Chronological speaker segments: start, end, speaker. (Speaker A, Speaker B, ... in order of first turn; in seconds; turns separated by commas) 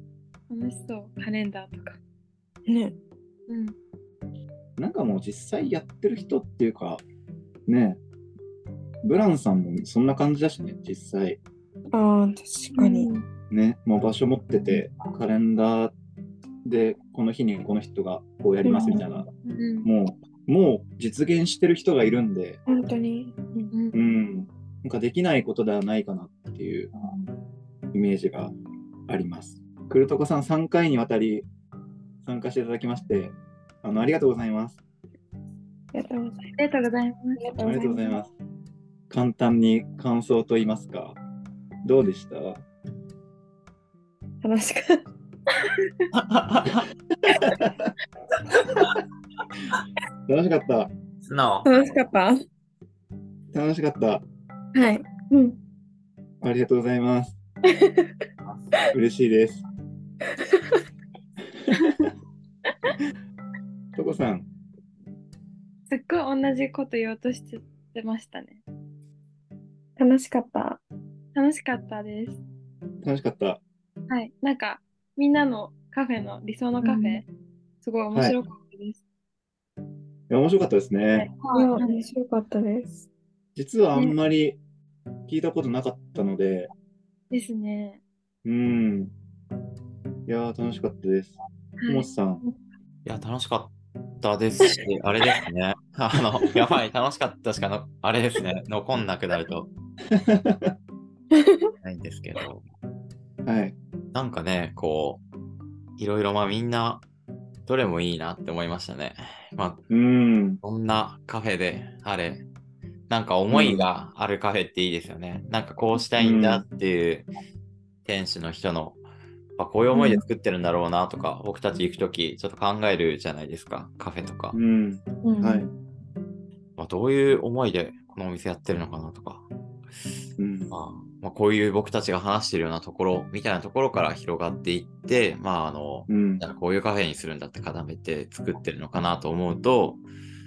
Speaker A: 0.5-2.0, Speaker B: 2.7-3.0, Speaker A: 3.5-3.7, Speaker C: 4.8-7.0, Speaker C: 7.7-8.0, Speaker C: 9.0-11.4, Speaker B: 11.9-13.1, Speaker A: 12.7-13.2, Speaker C: 13.5-15.9, Speaker C: 16.7-19.3, Speaker B: 18.6-19.0, Speaker A: 18.7-19.9, Speaker C: 19.8-22.6, Speaker B: 22.7-23.7, Speaker C: 23.9-26.9, Speaker C: 27.9-28.6, Speaker C: 29.1-31.5, Speaker C: 32.2-34.8, Speaker B: 35.9-36.6, Speaker A: 36.6-37.5, Speaker B: 37.4-38.2, Speaker C: 37.6-38.3, Speaker C: 39.1-41.2, Speaker C: 41.8-42.6, Speaker B: 44.4-45.0, Speaker D: 46.2-46.8, Speaker C: 47.4-47.7, Speaker C: 50.3-50.9, Speaker D: 51.2-51.7, Speaker B: 51.6-52.4, Speaker C: 53.5-54.2, Speaker B: 54.7-55.6, Speaker C: 56.4-57.4, Speaker B: 57.8-58.1, Speaker D: 58.4-58.9, Speaker C: 58.9-59.6, Speaker C: 64.0-64.5, Speaker A: 65.9-68.6, Speaker B: 70.0-70.8, Speaker A: 71.3-72.4, Speaker C: 73.0-73.6, Speaker A: 74.1-77.3, Speaker B: 76.8-77.2, Speaker A: 77.8-79.0, Speaker C: 80.3-81.3, Speaker A: 81.1-82.0, Speaker B: 81.5-83.0, Speaker C: 83.6-84.6, Speaker C: 85.3-86.7, Speaker A: 87.3-88.0, Speaker C: 88.5-89.1, Speaker C: 90.3-91.4, Speaker A: 91.8-92.1, Speaker C: 91.9-92.4, Speaker D: 93.0-99.7, Speaker C: 100.2-100.7, Speaker D: 101.8-102.7, Speaker C: 103.5-103.8, Speaker D: 104.1-105.2, Speaker D: 106.0-107.1, Speaker D: 107.7-109.8, Speaker C: 109.9-110.6, Speaker D: 110.6-112.4, Speaker D: 113.1-117.3, Speaker C: 113.5-113.9, Speaker C: 116.2-116.6, Speaker D: 118.0-119.0, Speaker D: 119.6-124.6, Speaker B: 120.0-120.2, Speaker C: 124.5-125.7, Speaker B: 125.2-125.7, Speaker D: 126.8-129.5, Speaker C: 130.4-130.8, Speaker D: 130.7-140.0, Speaker C: 136.1-136.5